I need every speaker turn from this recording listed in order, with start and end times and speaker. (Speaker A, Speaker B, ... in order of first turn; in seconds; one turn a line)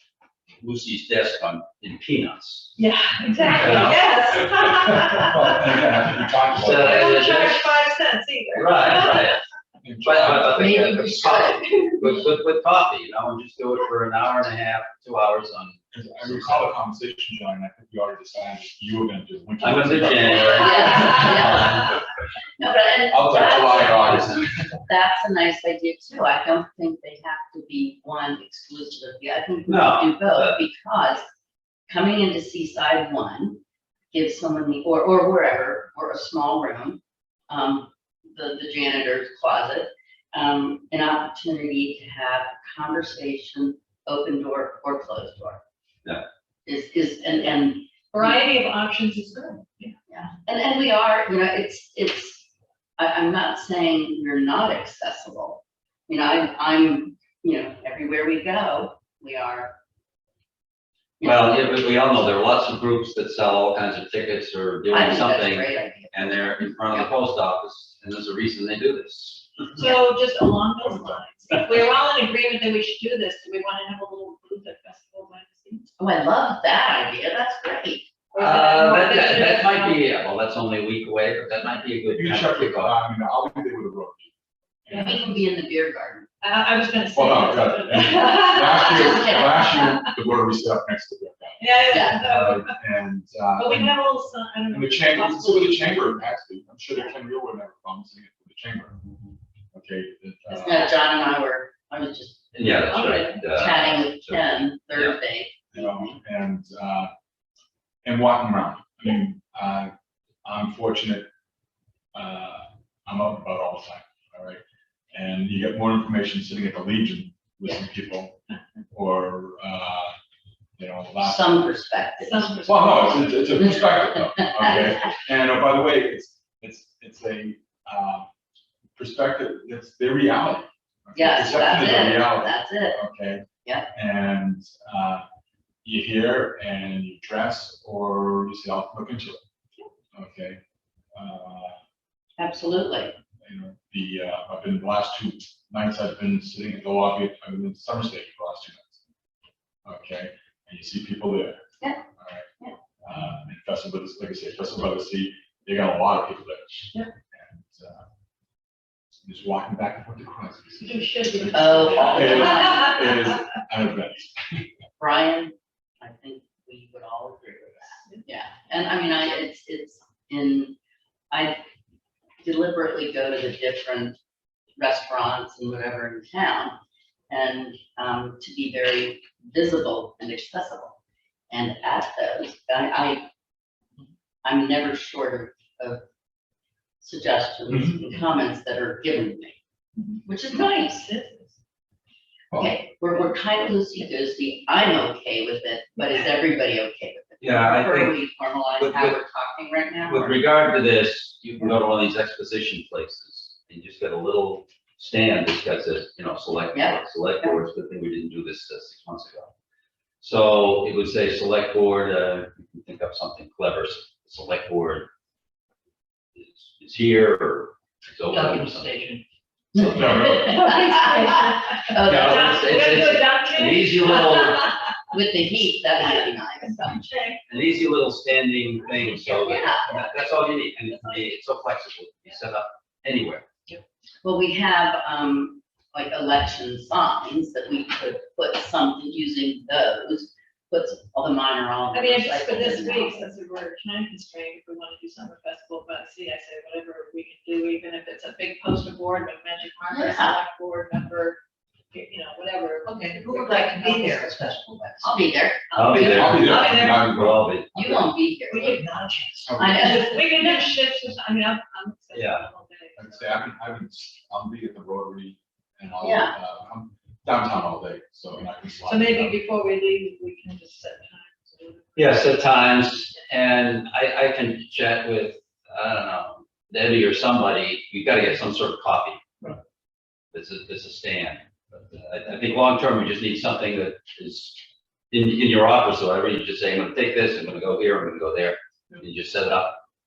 Speaker A: 0.6-2.7
Speaker B: 2.8-5.6
Speaker A: 3.4-4.2
Speaker C: 4.7-7.2
Speaker A: 6.5-7.8
Speaker B: 6.8-9.4
Speaker A: 8.5-9.4
Speaker C: 9.8-10.8
Speaker A: 10.0-16.6
Speaker D: 10.4-11.9
Speaker C: 15.9-21.9
Speaker A: 19.6-22.0
Speaker D: 20.4-22.0
Speaker D: 22.6-24.4
Speaker C: 23.1-24.6
Speaker A: 23.4-24.4
Speaker D: 24.9-31.2
Speaker A: 29.7-30.6
Speaker D: 31.9-33.6
Speaker D: 34.1-45.6
Speaker D: 46.6-48.4
Speaker B: 48.1-49.9
Speaker D: 50.1-59.8
Speaker D: 61.2-61.7
Speaker A: 61.2-69.9
Speaker D: 64.9-67.1
Speaker B: 69.7-75.9
Speaker C: 70.8-71.2
Speaker D: 76.0-78.1
Speaker B: 78.3-80.1
Speaker A: 78.3-83.0
Speaker C: 82.1-84.3
Speaker C: 84.8-85.4
Speaker B: 84.9-85.2
Speaker D: 85.0-86.3
Speaker B: 86.4-90.0
Speaker C: 87.1-93.9
Speaker D: 88.8-89.8
Speaker B: 91.6-92.8
Speaker D: 91.9-92.2
Speaker B: 93.5-96.0
Speaker C: 94.7-99.0
Speaker C: 99.7-100.9
Speaker D: 100.5-106.0
Speaker A: 102.5-105.2
Speaker B: 102.9-103.4
Speaker C: 105.7-107.1
Speaker C: 108.0-109.9
Speaker C: 110.4-111.3
Speaker C: 112.1-114.6
Speaker C: 115.1-118.4
Speaker C: 118.9-120.1
Speaker C: 120.8-121.7
Speaker D: 121.2-122.6
Speaker B: 122.2-123.3
Speaker C: 122.6-128.3
Speaker D: 123.5-125.1
Speaker C: 128.9-135.2
Speaker D: 131.1-133.0
Speaker C: 135.8-139.4
Speaker C: 140.1-140.6
Speaker C: 141.1-141.8
Speaker D: 142.4-143.1
Speaker C: 143.4-149.0
Speaker C: 149.8-152.5
Speaker C: 153.0-158.0
Speaker C: 159.2-164.6
Speaker B: 160.8-162.8
Speaker D: 161.5-163.2
Speaker D: 165.0-170.7
Speaker D: 171.3-171.6
Speaker D: 172.4-174.2
Speaker D: 174.8-176.8
Speaker D: 177.3-180.9
Speaker D: 181.5-183.2
Speaker D: 184.4-186.0
Speaker D: 187.0-189.6
Speaker C: 187.7-188.0
Speaker B: 190.0-191.6
Speaker D: 190.2-191.1
Speaker D: 192.5-200.4
Speaker B: 196.0-196.3
Speaker A: 197.4-198.2
Speaker A: 198.8-199.2
Speaker A: 200.0-209.5
Speaker D: 206.7-207.6
Speaker A: 210.2-215.1
Speaker A: 216.4-219.0
Speaker E: 218.3-219.2
Speaker D: 219.7-222.8
Speaker C: 219.8-220.6
Speaker A: 219.8-220.1
Speaker B: 220.4-224.7
Speaker A: 222.0-224.8
Speaker D: 225.1-227.0
Speaker B: 226.8-227.4
Speaker A: 227.5-233.4
Speaker D: 229.2-229.9
Speaker B: 230.9-231.4
Speaker D: 234.2-243.3
Speaker B: 241.9-251.4
Speaker D: 249.9-250.4
Speaker B: 251.9-254.3
Speaker E: 252.8-255.3
Speaker D: 255.0-255.7
Speaker B: 255.7-257.1
Speaker A: 255.7-258.1
Speaker C: 255.9-257.6
Speaker D: 257.7-258.8
Speaker B: 258.5-263.3
Speaker E: 258.6-259.1
Speaker C: 259.4-260.0
Speaker D: 259.5-260.5
Speaker A: 262.1-262.4
Speaker C: 263.0-269.4
Speaker D: 266.0-266.3
Speaker B: 268.8-273.2
Speaker A: 271.9-279.2
Speaker A: 280.3-289.8